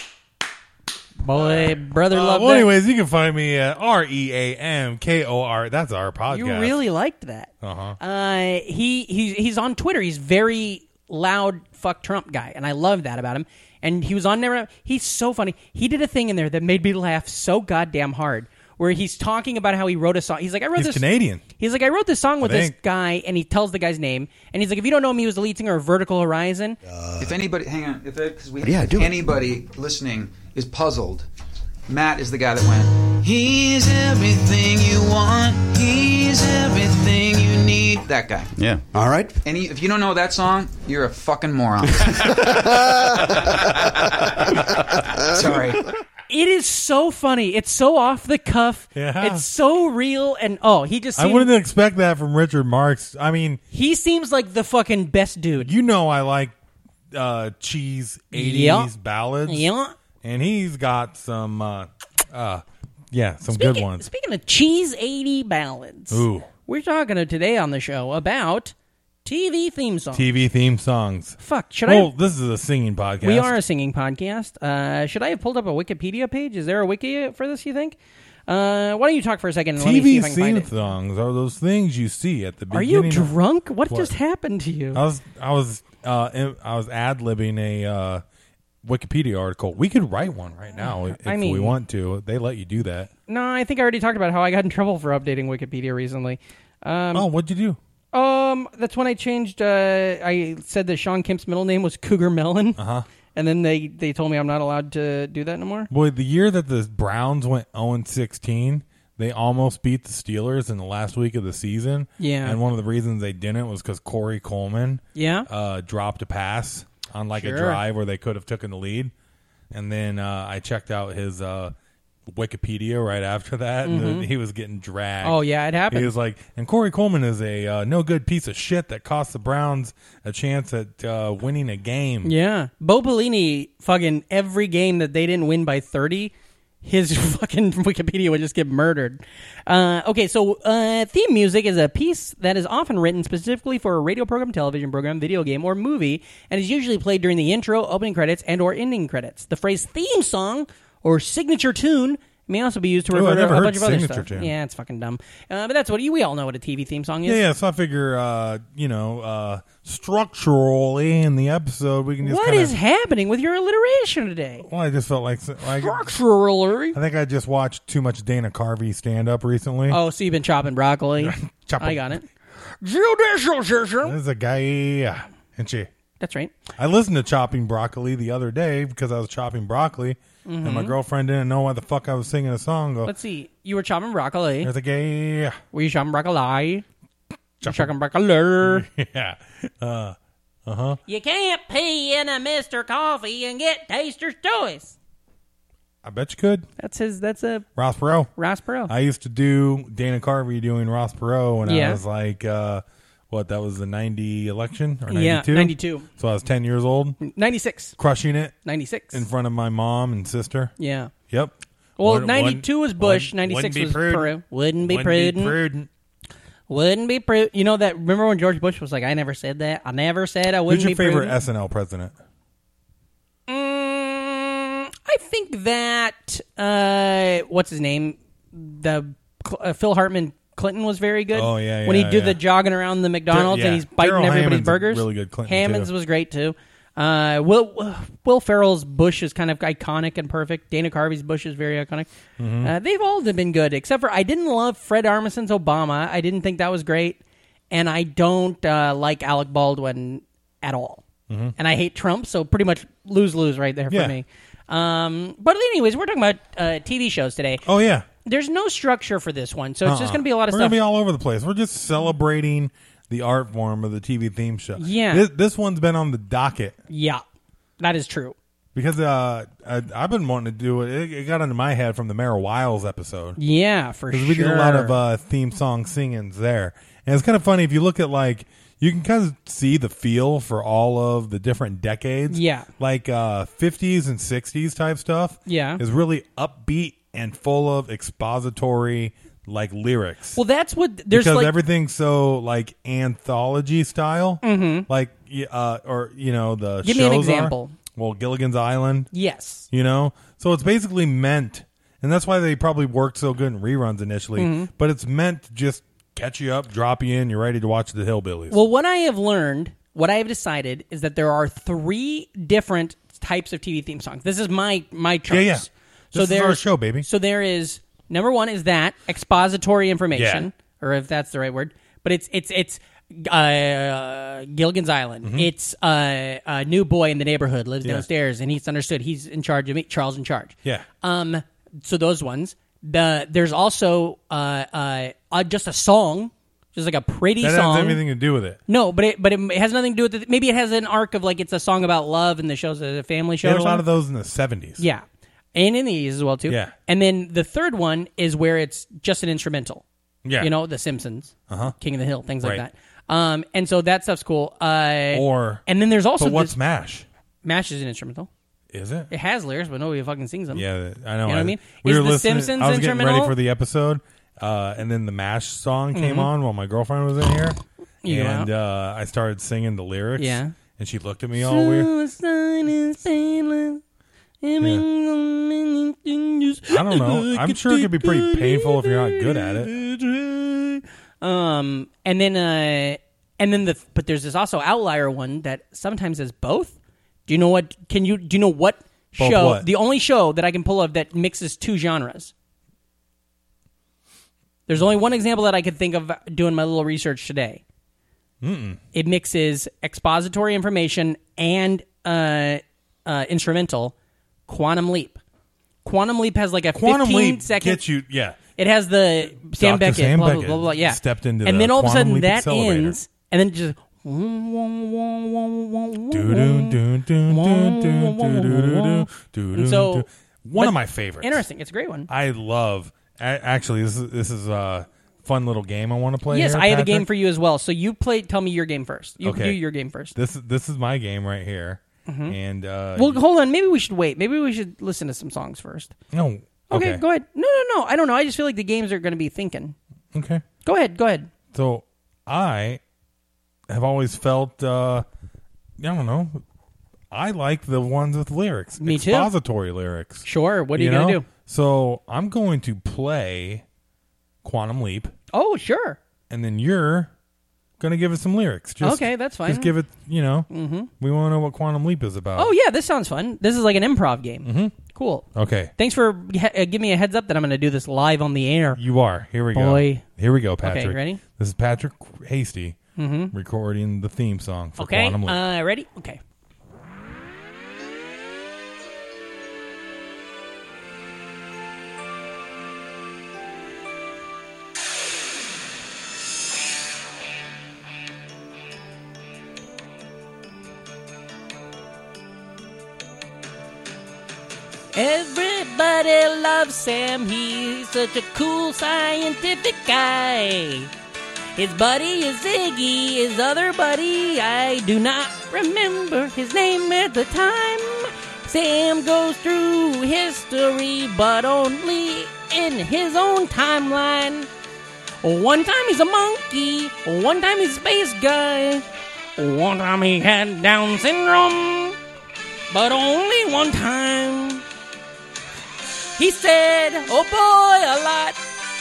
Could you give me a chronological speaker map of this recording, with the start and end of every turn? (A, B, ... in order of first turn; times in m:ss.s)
0:01.2-0:02.7 A
0:01.3-0:06.8 B
0:06.3-0:21.1 A
0:07.6-0:08.0 B
0:20.8-0:21.4 B
0:21.6-0:26.8 A
0:22.4-0:22.8 B
0:26.9-0:27.4 C
0:27.2-0:31.3 D
0:28.6-0:29.2 C
0:31.9-0:38.8 D
0:38.6-0:39.4 C
0:39.4-0:42.6 D
0:42.0-0:43.3 C
0:43.2-0:44.3 D
0:45.3-0:45.9 D
0:46.3-0:51.5 A
0:49.0-0:49.4 B
0:51.2-0:53.6 B
0:53.7-0:55.7 A
0:55.6-0:56.5 B
0:57.1-0:59.7 B
0:58.3-0:58.9 A
0:59.4-1:00.0 A
1:00.2-1:04.1 B
1:03.5-1:08.7 A
1:06.1-1:06.5 B
1:09.2-1:10.3 A
1:10.1-1:13.6 B
1:11.4-1:12.1 A
1:13.2-1:20.7 A
1:19.8-1:23.3 B
1:22.7-1:25.0 A
1:23.9-1:24.1 B
1:24.9-1:28.2 B
1:28.8-1:33.1 B
1:30.7-1:31.8 A
1:33.3-1:37.3 A
1:37.1-1:37.8 B
1:38.1-1:42.8 A
1:42.8-1:43.1 B
1:43.4-1:45.9 A
1:45.9-1:59.1 B
1:52.2-1:52.6 A
1:55.2-1:55.5 A
1:57.3-1:57.8 A
1:59.7-2:01.7 B
2:02.3-2:12.4 B
2:03.8-2:04.3 A
2:05.2-2:06.1 A
2:12.2-2:37.4 A
2:33.1-2:34.5 B
2:37.2-2:42.8 B
2:42.2-2:44.7 A
2:44.6-2:46.1 B
2:45.6-2:47.0 A
2:46.9-2:50.0 B
2:49.9-2:52.3 A
2:51.2-2:52.2 B
2:52.8-2:54.2 A
2:54.0-2:55.9 B
2:56.2-2:56.6 A
2:56.8-3:03.1 B
3:00.4-3:01.0 A
3:03.0-3:04.7 A
3:04.6-3:05.6 B
3:05.7-3:06.8 A
3:07.6-3:07.9 B
3:07.6-3:08.9 A
3:08.6-3:11.0 B
3:11.1-3:15.0 A
3:16.0-3:16.7 B
3:16.8-3:17.7 A
3:17.8-3:18.3 B
3:18.4-3:18.9 A
3:18.9-3:27.2 B
3:21.6-3:22.0 A
3:25.1-3:26.1 A
3:27.2-3:28.0 A
3:28.0-3:28.6 B
3:28.6-3:29.2 A
3:29.1-3:30.7 B
3:30.8-3:31.1 A
3:31.3-3:35.9 B
3:32.0-3:35.6 A
3:36.7-3:41.4 A
3:40.7-3:42.2 B
3:43.5-4:02.1 A
3:51.3-3:52.4 B
3:53.3-3:55.9 B
4:02.4-4:02.7 B
4:02.6-4:11.0 A
4:11.3-4:11.5 B
4:11.6-4:17.6 A
4:13.9-4:14.2 B
4:17.6-4:18.1 B
4:18.2-4:20.8 A
4:19.8-4:26.8 B
4:24.8-4:25.3 A
4:26.9-4:27.2 A
4:27.8-4:28.4 A
4:28.8-4:33.4 B
4:33.4-4:35.0 A
4:34.1-4:50.4 B
4:42.3-4:42.7 A
4:45.5-4:45.8 A
4:50.4-4:51.6 A
4:51.1-4:59.1 B
4:54.4-4:54.9 A
4:56.8-4:57.8 A
4:59.1-4:59.7 A
4:59.7-5:08.6 B
5:04.4-5:04.7 A
5:08.5-5:38.0 A
5:15.3-5:17.1 B
5:20.1-5:20.5 B
5:25.2-5:25.5 B
5:37.4-5:38.6 B
5:38.7-5:43.9 A
5:43.4-5:44.8 B
5:44.8-5:49.8 A
5:46.5-5:46.7 B
5:50.2-5:50.5 B
5:50.4-5:56.6 A
5:51.5-5:51.8 B
5:55.1-5:55.6 B
5:56.2-5:57.1 B
5:57.4-5:58.3 A
5:58.7-5:59.1 B
5:59.1-6:00.7 A
6:00.5-6:11.9 B
6:01.3-6:03.4 A
6:05.9-6:06.3 A
6:08.0-6:08.5 A
6:10.2-6:10.5 A
6:11.4-6:13.8 A
6:14.4-6:32.3 A
6:14.6-6:14.8 B
6:16.7-6:19.8 B
6:29.2-6:29.7 B
6:34.7-6:37.6 A
6:38.4-6:38.8 B
6:38.9-6:44.0 A
6:44.5-6:45.2 A
6:45.8-6:47.8 A
6:46.7-6:48.4 B
6:48.6-7:02.1 A
6:49.5-6:53.0 B
6:56.1-7:01.4 B
7:02.1-7:07.1 B
7:06.3-7:10.2 A
7:09.2-7:09.6 B
7:10.1-7:13.2 B
7:12.1-7:12.4 A
7:13.0-7:16.0 A
7:16.1-7:17.0 B
7:16.7-7:19.8 A
7:20.1-7:20.4 B
7:20.6-7:21.3 A
7:21.5-7:22.8 B
7:23.7-7:25.1 B
7:25.8-7:26.4 B
7:27.1-7:33.6 B
7:28.8-7:29.3 A
7:30.2-7:31.3 A
7:34.4-7:35.1 B
7:35.3-7:36.0 A
7:36.3-7:37.1 B
7:37.8-7:42.5 B
7:38.8-7:39.7 A
7:40.5-7:40.9 A
7:42.4-7:48.8 A
7:44.4-7:44.8 B
7:45.3-7:45.7 B
7:48.8-7:52.8 B
7:49.5-7:50.0 A
7:50.6-7:51.2 A
7:53.0-7:53.3 A
7:53.3-7:55.4 B
7:54.8-7:56.2 A
8:14.9-8:20.9 A
8:21.6-8:34.5 A
8:35.2-8:38.8 A
8:39.4-8:42.0 A
8:42.7-8:44.6 A
8:46.2-8:48.4 A